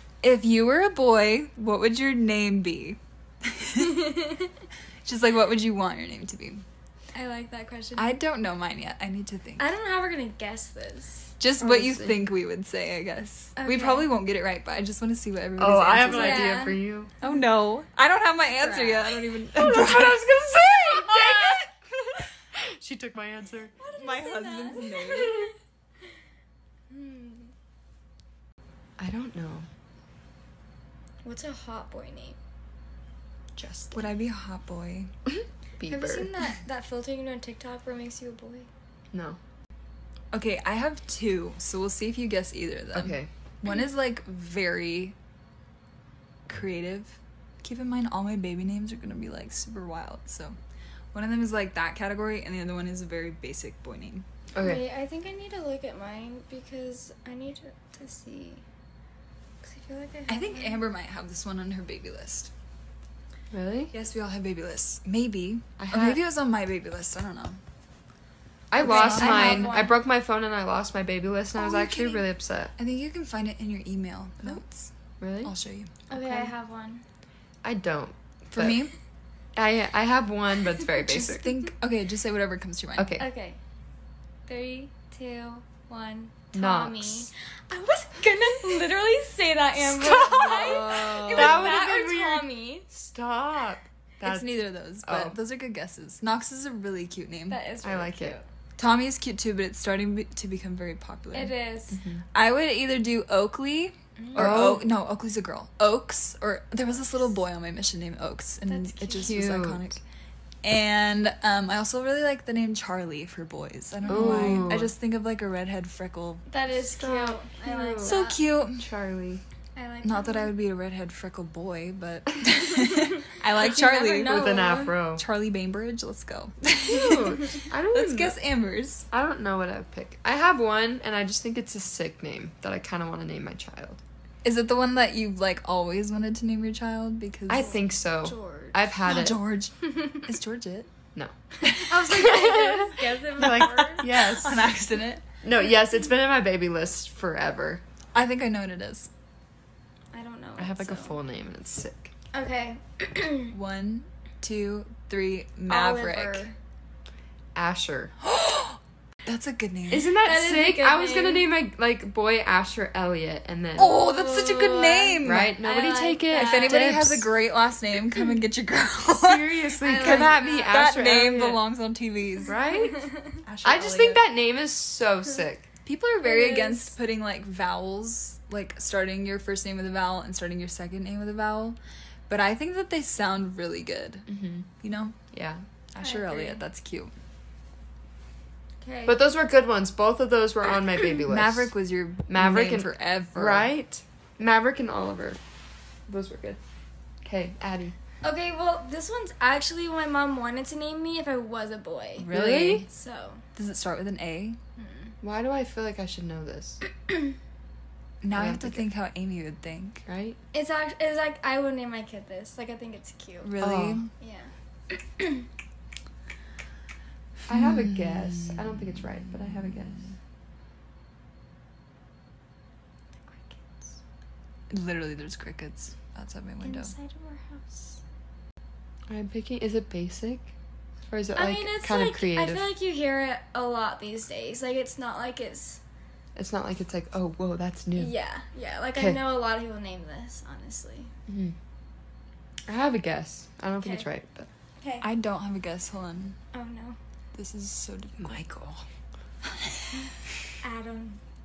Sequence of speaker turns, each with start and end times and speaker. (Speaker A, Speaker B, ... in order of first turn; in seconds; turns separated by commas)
Speaker A: 0.2-4.2, Speaker B: 3.8-4.5, Speaker A: 5.0-6.6, Speaker B: 7.1-8.1, Speaker A: 8.0-9.7, Speaker B: 9.6-11.3, Speaker A: 11.4-16.6, Speaker C: 11.6-12.2, Speaker B: 13.6-14.1, Speaker C: 15.6-17.1, Speaker B: 16.1-16.8, Speaker A: 17.2-20.3, Speaker B: 18.5-19.3, Speaker C: 19.5-23.7, Speaker B: 21.1-21.6, Speaker B: 23.8-25.5, Speaker A: 24.0-25.5, Speaker B: 26.9-27.5, Speaker C: 29.0-29.7, Speaker B: 31.2-32.4, Speaker C: 33.6-34.0, Speaker A: 33.9-35.1, Speaker C: 35.3-36.3, Speaker B: 35.9-38.7, Speaker C: 39.1-39.4, Speaker A: 40.3-45.2, Speaker C: 42.9-43.3, Speaker A: 46.5-50.6, Speaker A: 51.1-54.2, Speaker C: 54.5-54.8, Speaker B: 54.6-58.6, Speaker B: 59.6-60.8, Speaker A: 60.3-62.5, Speaker C: 63.5-63.9, Speaker A: 63.9-67.6, Speaker C: 65.8-66.2, Speaker C: 68.7-72.7, Speaker B: 68.8-70.0, Speaker A: 68.8-69.8, Speaker B: 71.6-72.1, Speaker A: 72.8-74.9, Speaker C: 75.2-75.5, Speaker A: 75.4-75.9, Speaker B: 76.1-77.0, Speaker C: 76.1-76.5, Speaker C: 77.6-78.9, Speaker A: 78.5-78.9, Speaker C: 79.5-81.4, Speaker A: 81.0-83.2, Speaker C: 83.0-83.2, Speaker B: 83.2-83.6, Speaker B: 84.5-92.9, Speaker C: 86.5-87.3, Speaker C: 89.8-95.3, Speaker A: 90.3-91.8, Speaker A: 94.2-97.6, Speaker B: 97.5-98.4, Speaker C: 97.8-98.4, Speaker A: 98.8-101.5, Speaker B: 101.3-102.0, Speaker C: 101.9-102.2, Speaker A: 102.3-110.0, Speaker B: 104.2-104.6, Speaker C: 104.3-104.8, Speaker B: 108.7-109.5, Speaker C: 109.1-109.8, Speaker A: 110.6-116.5, Speaker C: 114.1-114.9, Speaker B: 114.1-114.7, Speaker B: 116.5-118.4, Speaker C: 117.0-118.2, Speaker A: 118.0-118.9, Speaker C: 118.8-119.4, Speaker B: 119.8-120.5, Speaker A: 120.0-124.5, Speaker B: 122.6-124.9, Speaker C: 124.2-125.2, Speaker A: 125.2-129.1, Speaker C: 126.8-128.4, Speaker C: 129.1-134.0, Speaker A: 134.4-137.8, Speaker C: 137.5-139.4, Speaker B: 137.6-138.9, Speaker A: 139.1-140.9, Speaker B: 139.8-140.2, Speaker A: 141.6-142.3, Speaker B: 141.7-144.1, Speaker C: 141.9-144.7, Speaker A: 144.0-145.2, Speaker C: 145.4-147.8, Speaker A: 148.1-149.1, Speaker B: 150.1-151.2, Speaker C: 150.6-152.1, Speaker B: 152.3-153.5, Speaker A: 153.5-156.5, Speaker B: 155.7-156.6, Speaker C: 157.6-158.1, Speaker A: 158.2-160.1, Speaker C: 159.9-163.9, Speaker B: 160.2-161.5, Speaker A: 163.8-165.6, Speaker B: 163.8-166.9, Speaker C: 165.2-167.3, Speaker A: 166.3-172.6, Speaker C: 169.1-171.6, Speaker B: 169.8-170.8, Speaker C: 172.5-173.1, Speaker B: 172.5-173.4, Speaker A: 173.4-174.2, Speaker C: 173.6-175.7, Speaker A: 175.8-181.8, Speaker B: 176.2-176.9, Speaker A: 182.3-184.3, Speaker C: 184.3-184.7, Speaker A: 184.8-185.2, Speaker C: 185.3-185.6, Speaker A: 185.9-187.1, Speaker B: 186.0-186.6, Speaker B: 188.8-189.2, Speaker C: 189.1-191.7, Speaker A: 191.3-193.7, Speaker C: 192.3-195.4, Speaker C: 196.1-196.6, Speaker C: 197.2-197.9, Speaker B: 198.2-203.4, Speaker A: 202.2-202.9, Speaker C: 202.3-202.9, Speaker A: 203.6-204.6, Speaker B: 204.8-205.2, Speaker C: 205.2-206.8, Speaker A: 208.2-210.0, Speaker C: 208.3-208.9, Speaker C: 210.1-210.4, Speaker B: 210.5-213.5, Speaker A: 213.4-214.1, Speaker C: 213.6-214.0, Speaker B: 214.2-215.5, Speaker C: 217.5-220.0, Speaker A: 217.5-218.8, Speaker B: 223.2-224.0, Speaker A: 224.7-226.9, Speaker B: 226.6-228.0, Speaker C: 229.1-230.5, Speaker C: 231.1-232.7, Speaker B: 231.3-235.8, Speaker C: 236.4-238.1, Speaker B: 238.0-241.1, Speaker C: 241.3-241.6, Speaker C: 242.7-244.5, Speaker B: 244.8-245.1, Speaker A: 245.0-246.4, Speaker B: 246.5-247.0, Speaker A: 247.3-248.3, Speaker C: 248.2-248.8, Speaker B: 250.6-251.2